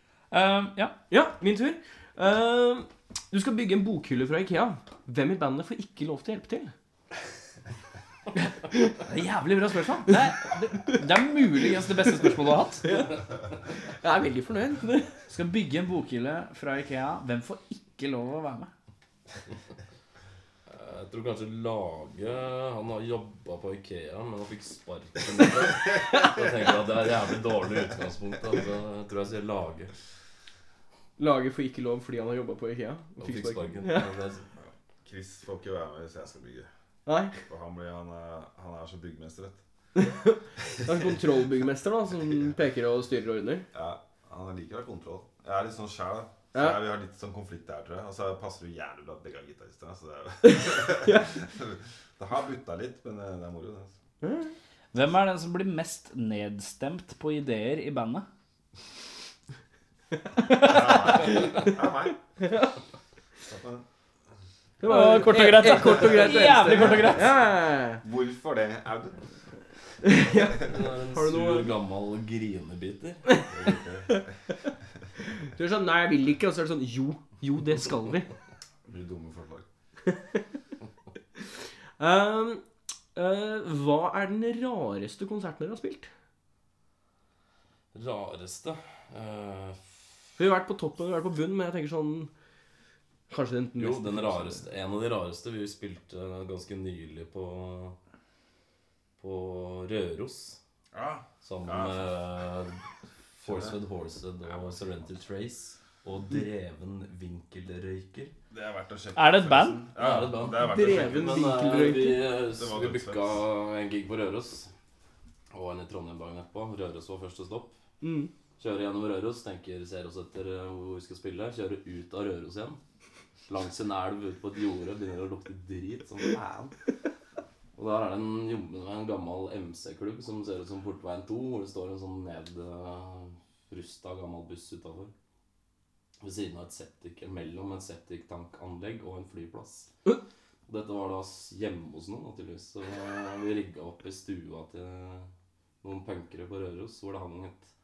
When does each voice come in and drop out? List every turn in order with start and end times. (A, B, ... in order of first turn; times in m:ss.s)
0:00.3-0:00.9 A
0:01.1-0:06.7 B
0:08.4-0:09.0 B
0:09.1-0:12.8 A
0:12.8-0:13.2 B
0:13.9-0:15.1 B
0:15.3-0:18.7 A
0:20.7-0:29.9 C
0:31.2-0:34.1 B
0:33.2-0:34.5 C
0:34.6-0:36.7 D
0:37.0-0:37.4 B
0:37.4-0:39.6 D
0:39.9-0:43.6 B
0:43.7-0:53.9 D
0:50.4-0:51.3 B
0:54.2-0:54.5 B
0:54.9-0:58.3 A
1:00.5-1:02.2 D
1:00.6-1:01.7 B
1:02.4-1:02.7 B
1:03.4-1:03.8 D
1:04.8-1:08.0 B
1:04.8-1:07.3 A
1:08.0-1:09.2 D
1:10.0-1:11.7 B
1:10.6-1:13.4 C
1:13.5-1:14.3 D
1:15.4-1:18.3 B
1:18.9-1:19.6 D
1:20.1-1:20.4 B
1:22.0-1:22.6 B
1:23.1-1:26.1 B
1:27.9-1:29.8 C
1:30.4-1:32.3 B
1:33.3-1:34.6 B
1:33.8-1:38.0 C
1:39.2-1:40.6 C
1:40.9-1:42.3 D
1:41.4-1:42.8 C
1:43.4-1:48.3 C
1:43.4-1:43.8 D
1:44.5-1:45.1 D
1:48.5-1:51.6 D
1:49.2-1:49.8 A
1:50.0-1:54.7 C
1:50.6-1:52.3 B
1:52.3-1:53.4 D
1:55.5-1:57.7 C
1:58.0-1:58.3 B
1:58.6-2:02.8 C
2:03.5-2:06.7 C
2:07.8-2:15.1 C
2:16.2-2:19.9 C
2:20.7-2:25.3 C
2:25.8-2:27.7 C